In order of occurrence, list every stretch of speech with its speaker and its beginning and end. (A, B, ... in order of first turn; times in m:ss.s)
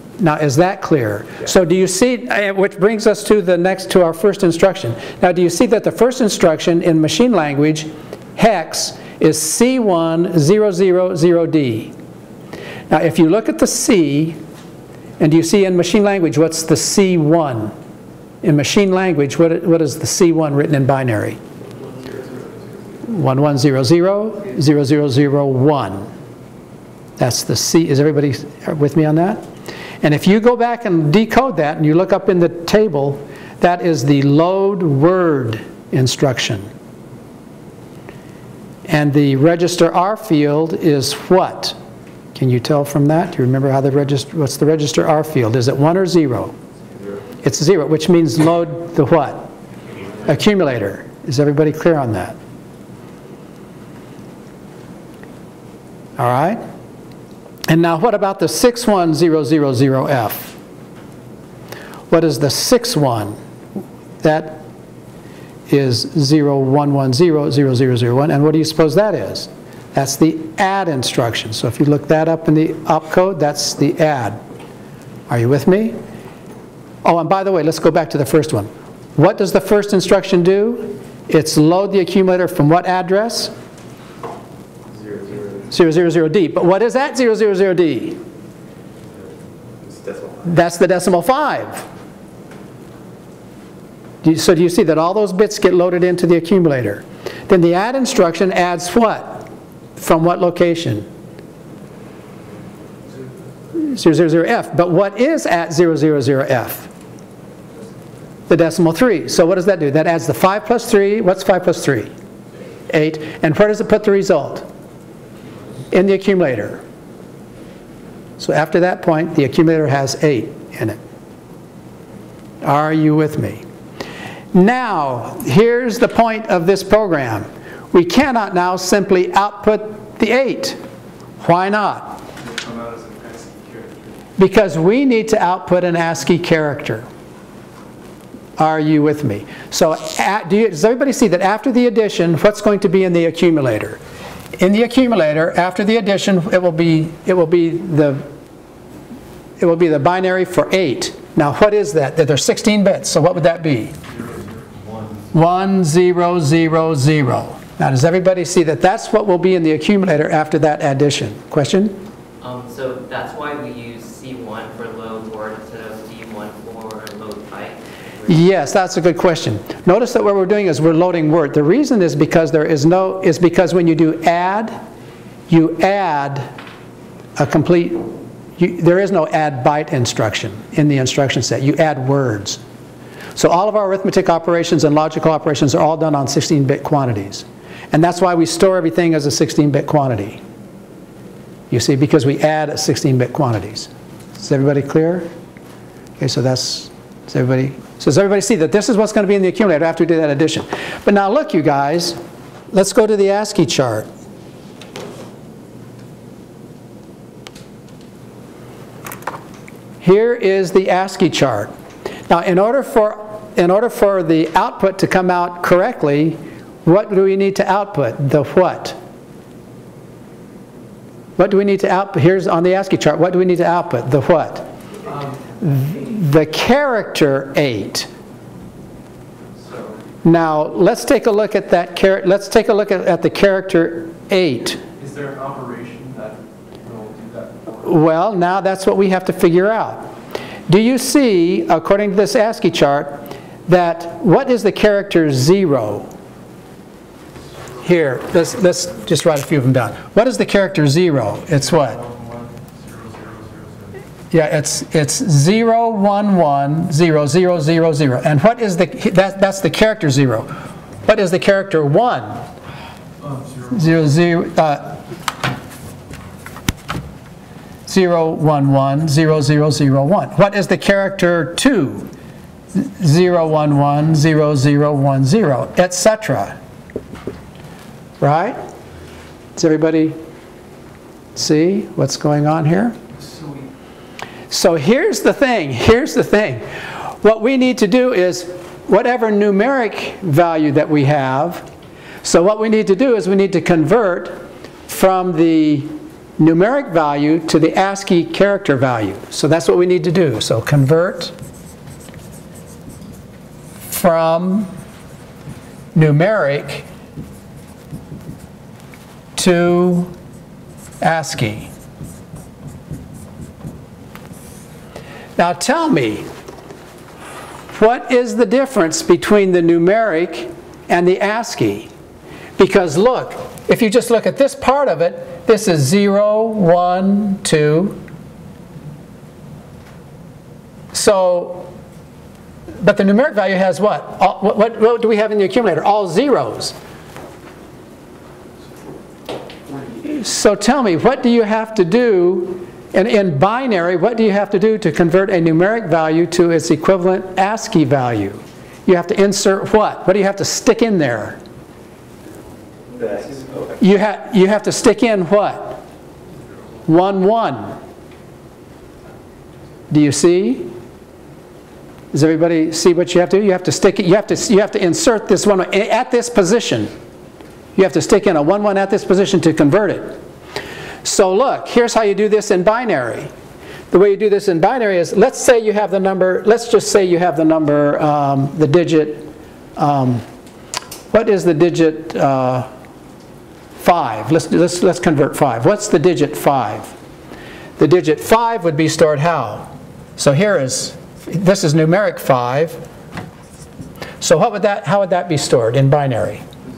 0:00.2-0:11.9 A
0:12.9-0:14.4 A
0:15.2-0:17.7 A
0:18.4-0:21.4 A
0:22.0-0:22.4 B
0:23.1-0:26.1 A
0:27.2-0:29.5 A
0:30.0-0:36.7 A
0:38.9-0:41.8 A
0:42.3-0:46.5 A
0:47.4-0:49.5 A
0:50.2-0:52.4 A
0:56.2-0:56.6 A
0:57.7-1:00.6 A
1:02.1-1:03.4 A
1:04.2-1:04.6 A
1:05.7-1:14.4 A
1:15.3-1:16.0 A
1:17.0-1:23.5 A
1:24.9-1:25.7 C
1:25.7-1:28.2 A
1:29.8-1:30.5 C
1:30.4-1:31.8 A
1:34.2-1:41.1 A
1:43.7-1:46.9 A
1:48.5-1:52.1 A
1:52.9-1:54.7 A
1:55.9-1:56.8 A
1:58.4-2:01.0 A
2:02.6-2:03.6 A
2:04.5-2:10.8 A
2:11.4-2:12.2 A
2:12.4-2:14.2 B
2:14.4-2:17.0 A
2:18.6-2:24.0 A
2:24.6-2:28.2 A
2:29.6-2:33.9 A
2:34.2-2:35.2 B
2:35.3-2:42.0 A
2:42.4-2:48.3 D
2:48.3-2:54.8 A
2:55.5-2:56.5 A
2:57.4-3:02.6 A
3:03.3-3:10.4 A
3:11.7-3:15.3 A
3:16.2-3:22.2 A
3:22.7-3:24.1 A
3:30.0-3:31.7 A
3:32.3-3:39.0 A
3:41.4-3:44.7 A
3:45.6-3:48.1 A
3:49.6-3:50.0 B
3:50.2-3:54.8 A
3:55.0-3:57.9 B
3:57.8-4:00.2 A
4:00.7-4:06.1 A
4:07.8-4:12.0 A
4:12.0-4:14.0 B
4:14.3-4:20.5 A
4:21.0-4:22.4 A
4:23.2-4:23.7 B
4:23.7-4:25.0 A
4:27.9-4:32.1 A
4:32.7-4:36.5 A
4:38.2-4:38.6 A
4:39.6-4:40.2 A
4:41.3-4:43.0 A
4:43.2-4:43.6 B
4:44.5-4:51.6 A
4:52.2-5:01.3 A
5:03.9-5:04.7 A
5:05.9-5:06.9 A
5:09.4-5:10.1 A
5:11.0-5:11.7 A
5:15.4-5:16.2 A
5:17.7-5:21.9 A
5:22.6-5:28.0 A
5:30.9-5:31.7 A
5:32.8-5:36.7 A
5:40.0-5:51.4 A
5:53.0-5:53.4 C
5:53.8-5:55.8 A
5:56.8-5:57.7 A
5:59.9-6:00.7 A
6:02.1-6:06.9 A
6:07.8-6:10.2 A
6:11.0-6:13.3 A
6:13.9-6:20.2 A
6:21.1-6:22.7 A
6:23.8-6:26.9 A
6:27.8-6:32.8 A
6:34.2-6:36.4 A